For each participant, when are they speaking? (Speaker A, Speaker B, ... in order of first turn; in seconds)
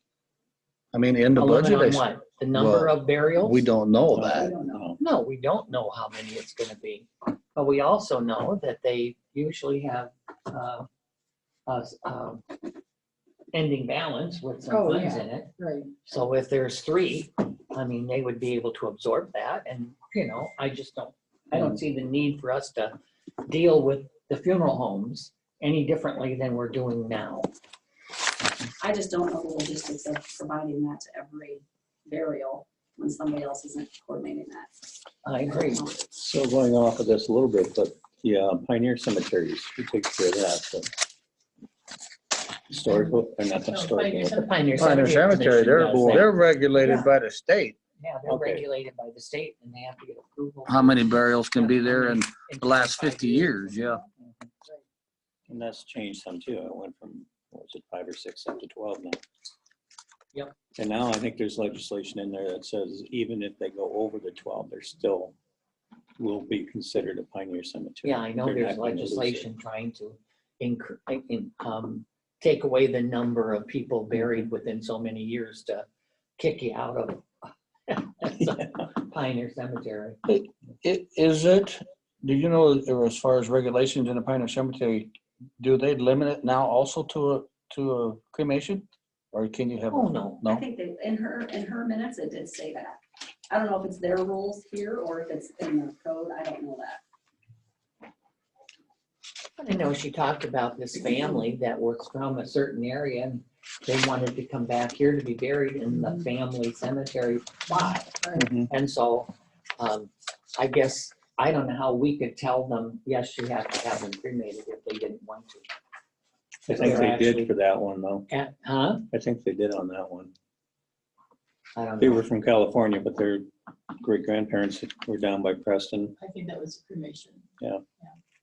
Speaker A: 0.9-4.5, 44.8-47.8, 50.7-54.0, 80.3-90.6
Speaker B: 1.4-3.6, 5.0-10.9, 11.7-12.4, 13.5-15.5, 16.0-27.5, 35.2-35.9, 44.3-47.1, 48.0-54.0, 68.0-75.9, 76.4-80.2, 89.9-90.4, 99.6-115.7, 116.7-117.5, 118.3-119.1, 121.8-122.2
Speaker C: 4.1-5.0, 36.1-41.0, 42.7-44.5, 48.3-48.6, 55.5-59.2, 60.8-65.3, 66.2-69.5, 78.4-78.7, 108.3-108.7, 116.7-118.3, 119.1-120.3, 122.0-126.2
Speaker D: 4.3-4.9, 28.8-34.7, 35.6-36.0, 90.4-93.0, 93.5-97.0
Speaker E: 14.7-15.9, 43.7-44.4, 126.2-127.4